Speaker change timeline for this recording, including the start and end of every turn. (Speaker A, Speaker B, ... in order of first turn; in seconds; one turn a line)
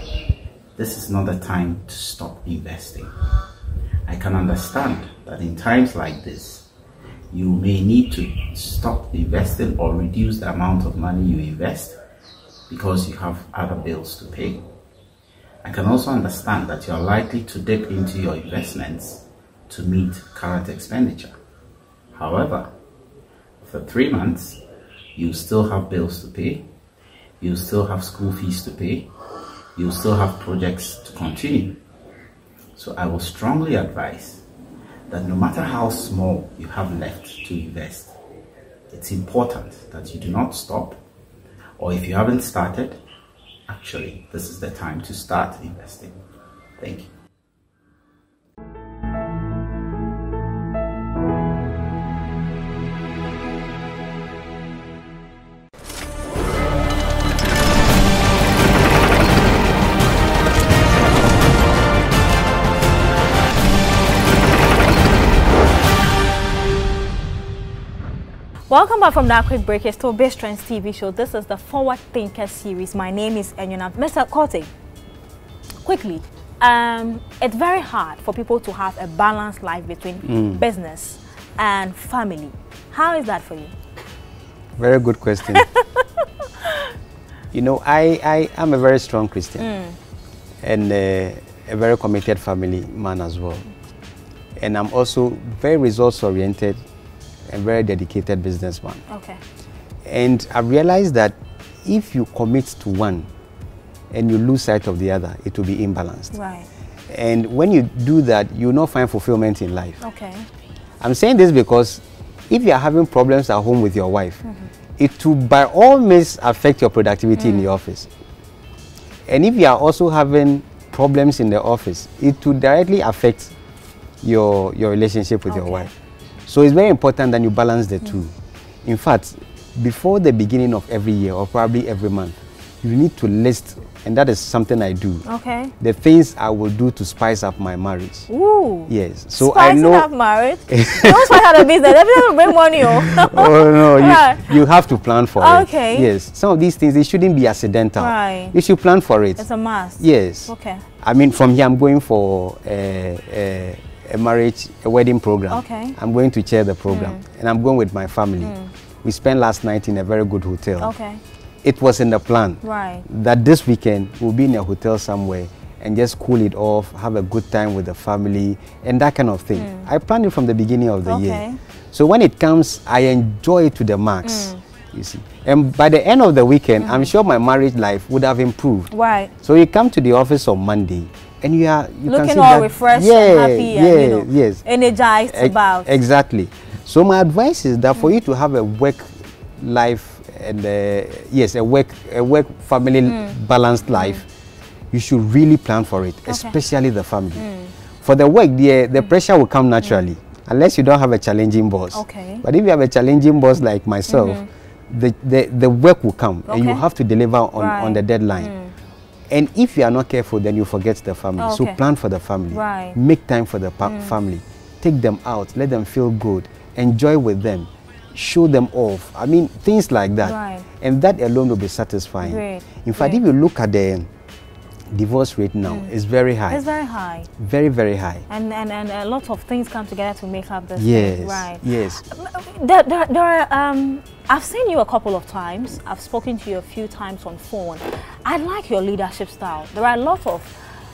Speaker A: 0.8-3.1
Speaker A: 4.1-6.7
Speaker A: 7.3-12.0
Speaker A: 12.7-14.7
Speaker A: 15.6-21.4
Speaker A: 22.1-22.7
Speaker A: 23.6-24.6
Speaker A: 25.1-26.6
Speaker A: 27.4-29.1
Speaker A: 29.8-31.8
Speaker A: 32.7-34.4
Speaker A: 35.1-38.1
Speaker A: 38.9-41.0
Speaker A: 41.8-43.0
Speaker A: 43.7-46.2
Speaker A: 46.8-47.1
Speaker B: 68.7-74.7
Speaker B: 75.8-83.7
Speaker C: 80.2-80.6
Speaker C: 84.8-85.7
Speaker B: 85.6-85.8
Speaker C: 87.5-89.7
Speaker B: 89.6-90.0
Speaker C: 90.6-93.7
Speaker C: 94.6-96.8
Speaker C: 97.5-99.0
Speaker B: 99.1-99.4
Speaker C: 100.0-103.3
Speaker C: 104.1-106.3
Speaker B: 106.3-106.7
Speaker C: 107.1-110.0
Speaker B: 110.0-110.5
Speaker C: 111.0-114.4
Speaker C: 115.0-118.1
Speaker B: 117.4-117.7
Speaker C: 119.3-123.5
Speaker C: 124.2-125.9
Speaker B: 125.5-125.9
Speaker C: 126.5-128.3
Speaker C: 128.8-135.2
Speaker B: 135.2-135.7
Speaker C: 135.8-138.3
Speaker B: 138.3-144.6
Speaker C: 138.9-140.1
Speaker C: 140.7-149.4
Speaker B: 145.4-146.1
Speaker B: 148.0-148.5
Speaker B: 149.4-150.8
Speaker C: 150.0-160.9
Speaker B: 155.5-155.9
Speaker B: 156.9-157.2
Speaker B: 158.4-158.7
Speaker B: 160.8-161.2
Speaker C: 161.6-184.6
Speaker B: 162.6-163.1
Speaker B: 169.6-169.9
Speaker B: 171.1-171.6
Speaker B: 174.2-174.6
Speaker B: 176.8-177.1
Speaker B: 178.9-179.3
Speaker B: 182.1-185.9
Speaker C: 185.3-194.2
Speaker B: 193.1-193.3
Speaker C: 194.9-197.5
Speaker B: 196.3-196.6
Speaker B: 197.4-197.7
Speaker C: 198.0-208.5
Speaker B: 201.9-202.4
Speaker B: 204.1-204.5
Speaker B: 206.5-206.8
Speaker B: 207.6-208.7
Speaker C: 209.3-224.1
Speaker B: 211.4-211.8
Speaker B: 212.5-212.9
Speaker B: 213.8-214.1
Speaker B: 220.2-220.6
Speaker B: 222.2-223.2
Speaker C: 224.9-226.6
Speaker B: 226.5-227.3
Speaker C: 227.4-228.2
Speaker B: 228.3-240.5
Speaker C: 230.8-232.0